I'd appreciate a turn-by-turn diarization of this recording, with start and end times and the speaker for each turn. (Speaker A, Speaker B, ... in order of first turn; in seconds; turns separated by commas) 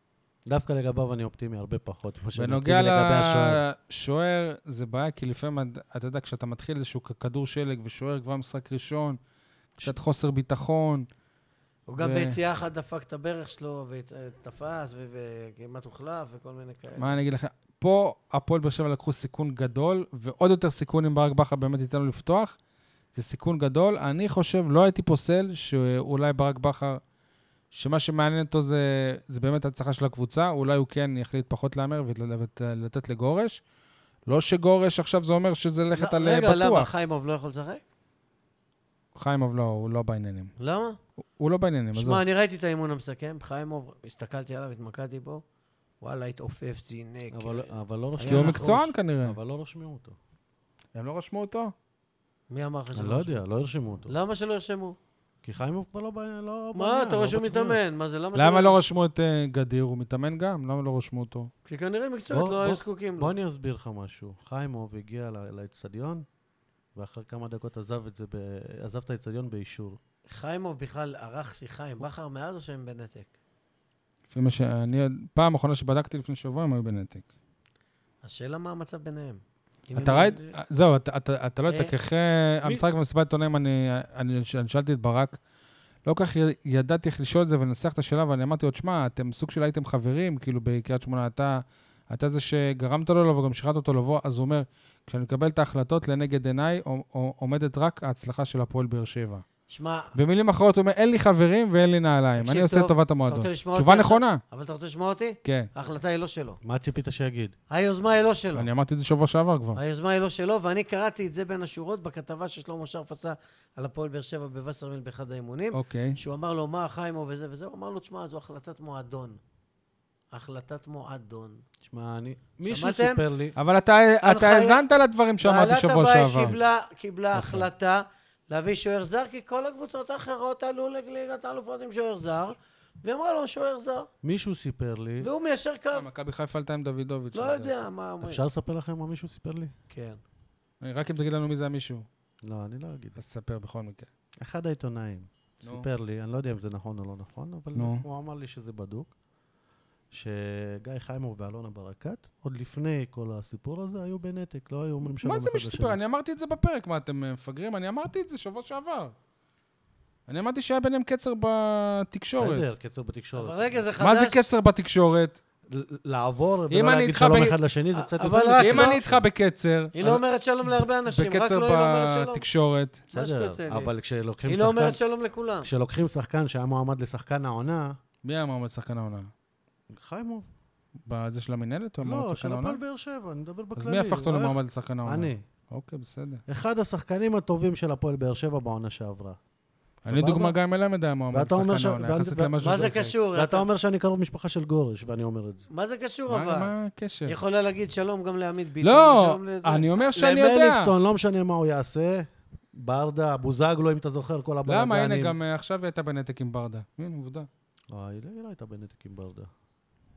Speaker A: 0.5-3.6, Speaker B: 2.4-9.2, Speaker B: 9.8-11.1, Speaker C: 11.9-17.1, Speaker B: 12.0-12.4, Speaker B: 17.0-22.6, Speaker B: 23.1-27.0, Speaker B: 27.7-33.6, Speaker B: 34.3-36.9, Speaker C: 35.9-37.8, Speaker B: 39.1-40.5, Speaker C: 40.6-41.0, Speaker B: 41.4-42.2, Speaker C: 42.0-45.4, Speaker C: 46.0-48.9, Speaker A: 47.3-50.2, Speaker B: 48.3-49.4, Speaker B: 51.0-51.7, Speaker C: 52.5-53.4, Speaker A: 53.0-54.1, Speaker C: 54.1-55.0, Speaker A: 55.4-57.8, Speaker C: 56.8-58.8, Speaker B: 58.4-61.5, Speaker C: 61.7-63.3, Speaker A: 62.3-66.3, Speaker A: 67.0-70.0, Speaker C: 70.3-73.3, Speaker B: 74.3-77.3, Speaker C: 78.2-80.4, Speaker A: 79.9-80.5, Speaker B: 80.0-85.4, Speaker C: 81.7-81.9, Speaker B: 86.0-99.4, Speaker C: 99.7-100.1, Speaker B: 100.2-104.4, Speaker C: 102.4-106.6, Speaker B: 105.4-105.7, Speaker A: 106.6-107.5, Speaker C: 107.7-108.7, Speaker B: 108.5-109.8, Speaker C: 109.8-119.4, Speaker B: 115.7-116.2, Speaker C: 120.3-121.6, Speaker A: 121.8-123.6, Speaker C: 122.7-123.2, Speaker B: 123.6-126.6, Speaker C: 124.2-124.8, Speaker C: 125.4-134.1, Speaker A: 127.3-127.7, Speaker A: 134.2-135.3, Speaker C: 135.2-136.1, Speaker B: 135.9-137.8, Speaker C: 137.3-138.4, Speaker A: 138.2-139.7, Speaker C: 139.9-140.2, Speaker B: 140.8-142.1, Speaker A: 142.4-143.2, Speaker B: 143.2-144.1, Speaker A: 144.4-149.1, Speaker B: 147.8-148.0, Speaker A: 150.1-156.0, Speaker B: 155.2-159.1, Speaker B: 160.3-162.7, Speaker A: 162.4-163.8, Speaker C: 163.4-164.5, Speaker B: 164.0-165.4, Speaker A: 165.7-169.2, Speaker B: 166.7-167.6, Speaker C: 167.9-169.0, Speaker B: 168.6-173.1, Speaker C: 169.9-172.4, Speaker A: 173.1-175.0, Speaker C: 173.1-173.9, Speaker C: 174.5-175.7, Speaker A: 175.6-178.0, Speaker B: 178.2-179.3, Speaker A: 179.9-180.5, Speaker B: 181.1-182.8, Speaker A: 182.0-185.4, Speaker B: 183.8-186.4, Speaker A: 186.5-189.4, Speaker A: 190.0-190.6, Speaker B: 190.1-193.1, Speaker A: 191.3-195.7, Speaker C: 192.6-193.7, Speaker C: 195.7-196.7, Speaker B: 196.3-197.4, Speaker C: 197.3-199.9, Speaker B: 198.8-200.9, Speaker A: 200.2-205.4, Speaker B: 204.7-207.5, Speaker A: 207.9-209.5